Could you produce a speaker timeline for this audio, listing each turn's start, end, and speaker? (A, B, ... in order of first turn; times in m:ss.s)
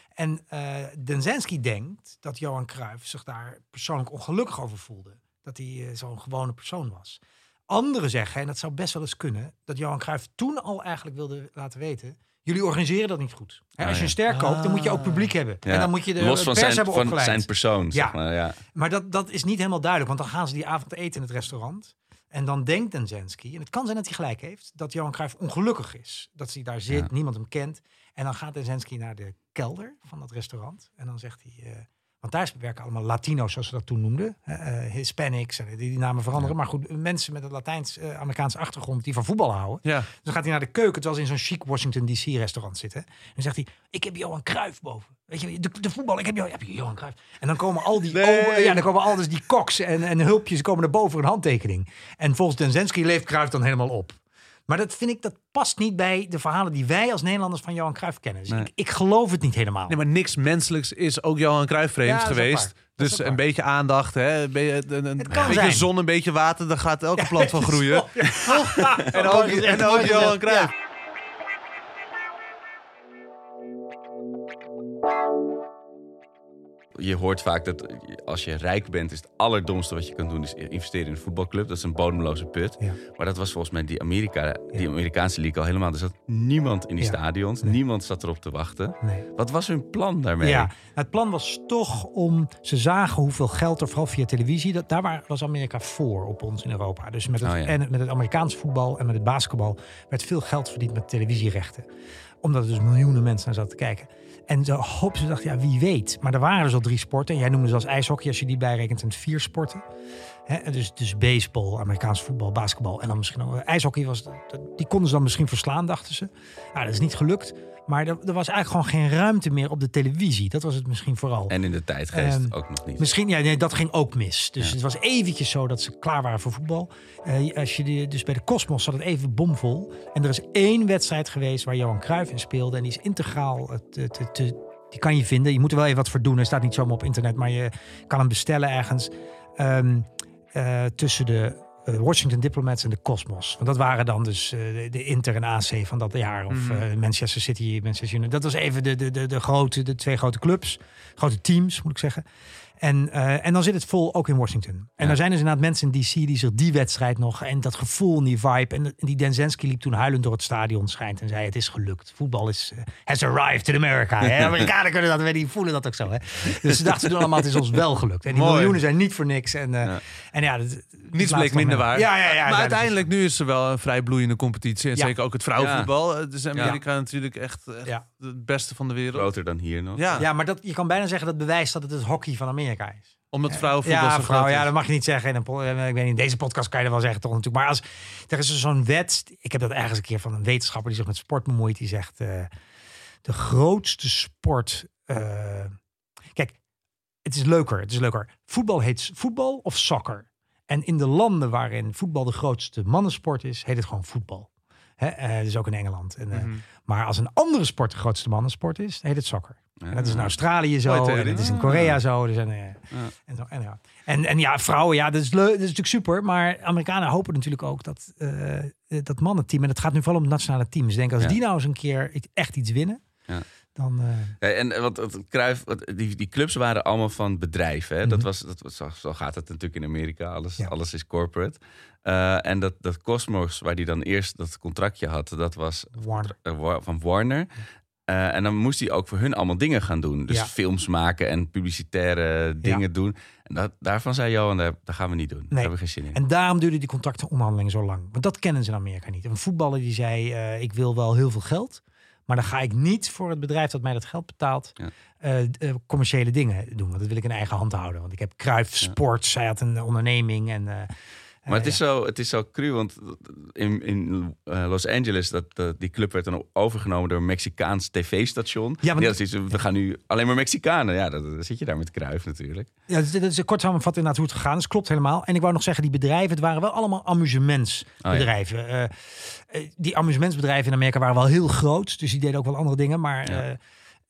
0:00.2-0:18.2 A
0:13.8-0:14.1 B
0:14.3-0:15.3 C
0:15.6-0:18.6 B
0:18.7-1:00.0 A
0:48.1-0:48.8 C
0:59.9-1:10.7 C
1:02.0-1:03.4 A
1:05.2-1:05.9 A
1:05.3-1:05.6 B
1:07.2-1:10.7 A
1:16.9-1:30.7 B
1:27.0-1:27.8 A
1:30.4-1:41.8 A
1:37.4-1:37.7 B
1:42.4-1:49.8 A
1:50.5-2:01.5 A
2:01.5-2:03.0 B
2:02.1-2:32.2 A
2:26.5-2:26.8 C
2:32.8-2:53.0 A
2:48.4-2:48.7 C
2:51.1-2:59.3 C
2:55.6-2:55.9 B
2:56.5-2:56.8 B
2:59.1-3:00.3 B
3:00.0-3:00.2 C
3:00.2-3:12.5 A
3:03.3-3:04.7 C
3:13.2-3:15.7 A
3:17.2-3:43.0 A
3:26.3-3:26.6 C
3:29.8-3:32.0 B
3:43.8-3:44.3 A
3:44.4-3:57.5 B
3:56.0-3:56.3 A
3:58.1-4:06.2 B
4:05.5-4:20.9 A
4:21.4-4:21.8 A
4:21.5-4:32.7 B
4:28.8-4:29.2 A
4:32.9-4:43.6 A
4:38.0-4:38.3 B